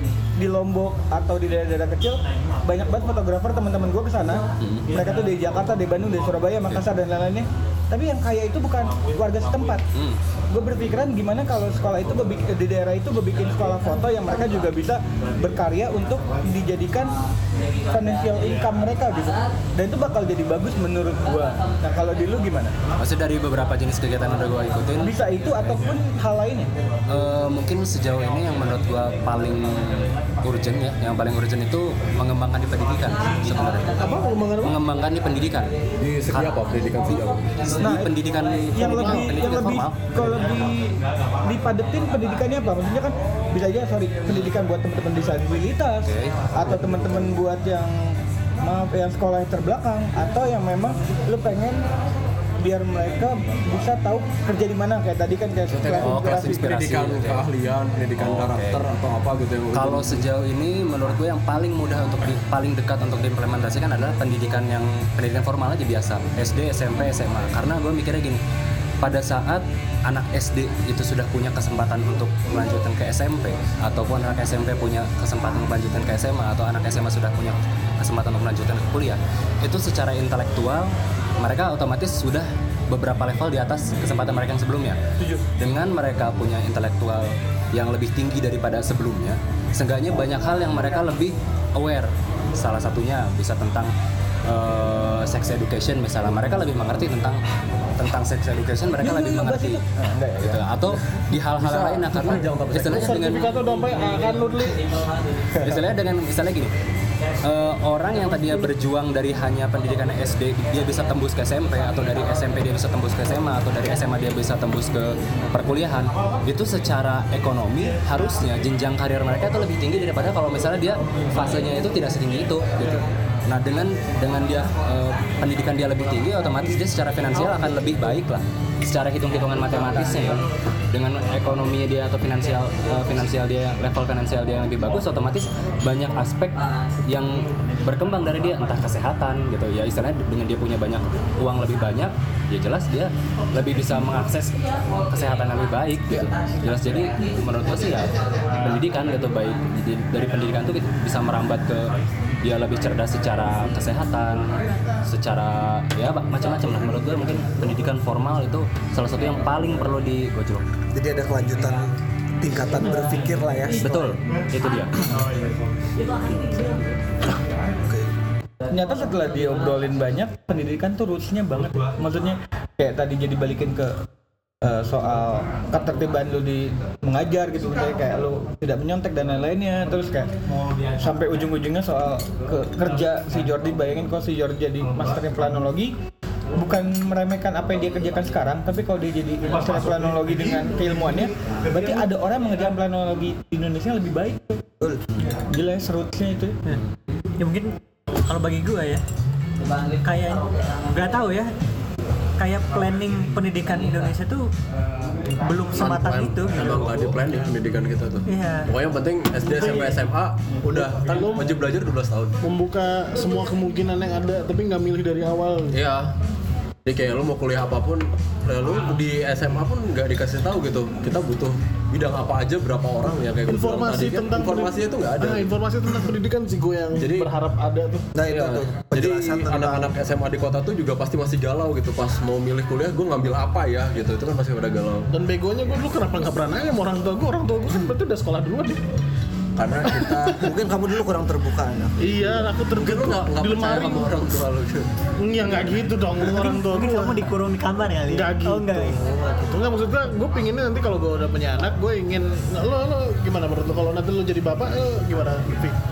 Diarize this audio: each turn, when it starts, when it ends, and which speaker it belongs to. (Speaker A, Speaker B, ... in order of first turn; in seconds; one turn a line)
Speaker A: 0.3-9.8
Speaker B: 4.6-4.9
Speaker A: 10.5-17.1
Speaker A: 17.9-22.7
Speaker B: 23.0-25.1
Speaker A: 25.0-26.7
Speaker B: 27.1-34.0
Speaker C: 34.0-34.7
Speaker B: 34.6-35.7
Speaker D: 36.0-37.5
Speaker B: 36.3-36.6
Speaker B: 37.6-40.5
Speaker A: 37.8-38.1
Speaker A: 38.7-51.8
Speaker B: 46.0-46.3
Speaker A: 52.6-56.7
Speaker D: 55.7-60.2
Speaker B: 55.9-57.4
Speaker B: 58.2-58.8
Speaker B: 59.7-68.4
Speaker B: 69.0-85.0
Speaker B: 85.6-93.9
Speaker B: 94.5-97.4
Speaker B: 98.0-99.8
Speaker A: 99.0-100.7
Speaker B: 100.4-103.4
Speaker D: 101.5-103.5
Speaker C: 102.9-105.0
Speaker B: 105.6-106.7
Speaker B: 107.4-151.9
Speaker B: 152.4-160.6
Speaker E: 160.9-164.0
Speaker B: 163.8-164.9
Speaker A: 168.7-174.0
Speaker A: 174.6-180.3
Speaker A: 181.0-185.9
Speaker A: 186.6-196.6
Speaker F: 197.4-197.8
Speaker F: 198.3-199.0
Speaker F: 200.0-201.5
Speaker F: 202.4-204.5
Speaker F: 205.4-207.0
Speaker D: 205.7-212.4
Speaker F: 208.3-208.7
Speaker F: 209.6-210.0
Speaker C: 210.7-211.5
Speaker C: 212.4-215.7
Speaker D: 215.7-216.1
Speaker D: 216.8-225.5
Speaker C: 223.5-228.0
Speaker D: 226.9-227.3
Speaker E: 228.1-229.9
Speaker D: 228.2-235.1
Speaker C: 235.1-238.8
Speaker D: 239.6-240.5
Speaker E: 240.3-242.3
Speaker C: 242.0-244.2
Speaker D: 242.7-244.9
Speaker C: 245.2-247.2
Speaker F: 246.3-249.0
Speaker C: 248.1-255.7